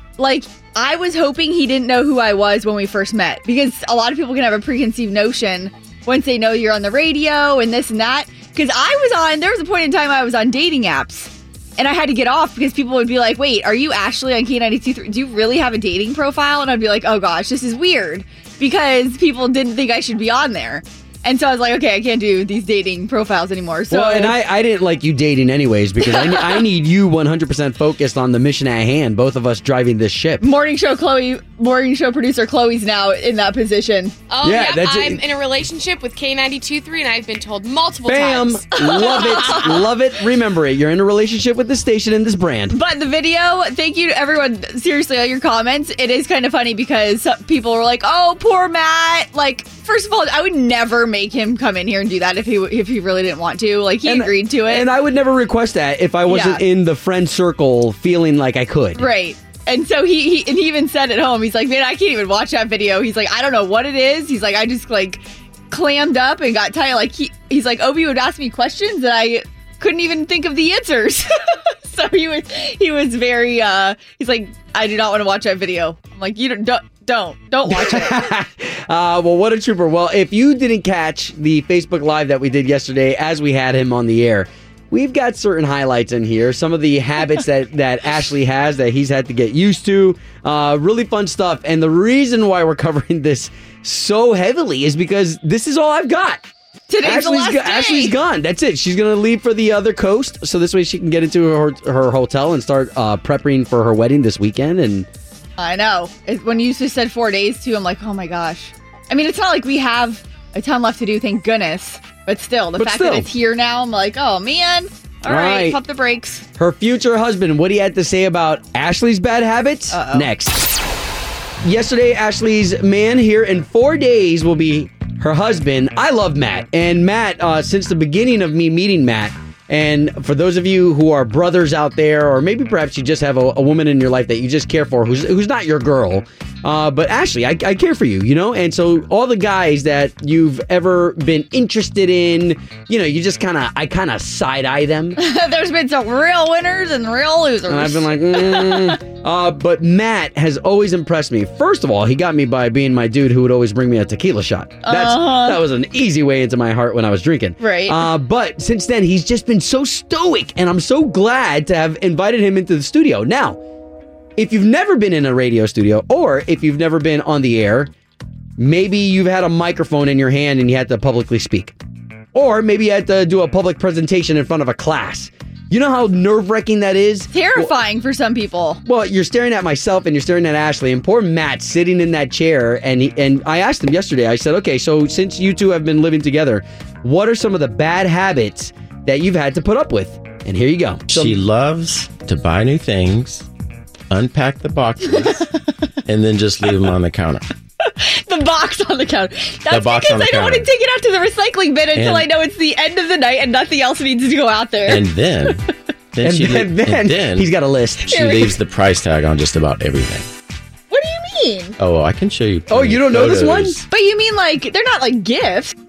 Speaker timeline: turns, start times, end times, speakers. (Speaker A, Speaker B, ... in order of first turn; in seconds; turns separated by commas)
Speaker A: 0.2-24.4, Speaker B: 23.9-30.4, Speaker A: 26.2-26.6, Speaker A: 30.4-34.2, Speaker C: 34.3-39.9, Speaker B: 34.4-35.2, Speaker B: 38.0-42.8, Speaker A: 38.8-39.8, Speaker A: 42.7-54.9, Speaker B: 54.0-59.1, Speaker A: 56.3-56.6, Speaker A: 59.0-78.2, Speaker B: 77.7-96.4, Speaker A: 96.9-98.2, Speaker B: 97.0-105.1, Speaker A: 105.6-116.5, Speaker B: 112.8-113.3, Speaker B: 115.3-115.8, Speaker B: 116.6-120.7, Speaker A: 119.9-120.3, Speaker B: 121.6-145.2, Speaker A: 145.2-149.0, Speaker B: 147.7-163.6, Speaker A: 154.8-155.6, Speaker A: 157.6-158.1, Speaker B: 164.4-167.9, Speaker B: 168.6-171.8, Speaker B: 172.3-177.7, Speaker A: 177.3-178.8, Speaker B: 178.8-191.4, Speaker D: 191.1-193.5, Speaker D: 194.1-195.5, Speaker D: 196.1-197.5, Speaker A: 197.8-205.0, Speaker D: 199.7-200.7, Speaker D: 201.9-202.3, Speaker D: 204.9-207.5, Speaker B: 206.2-208.4, Speaker D: 208.1-210.3, Speaker A: 208.2-208.5, Speaker A: 210.9-211.8, Speaker D: 211.8-213.8, Speaker B: 212.7-213.8, Speaker A: 213.9-215.8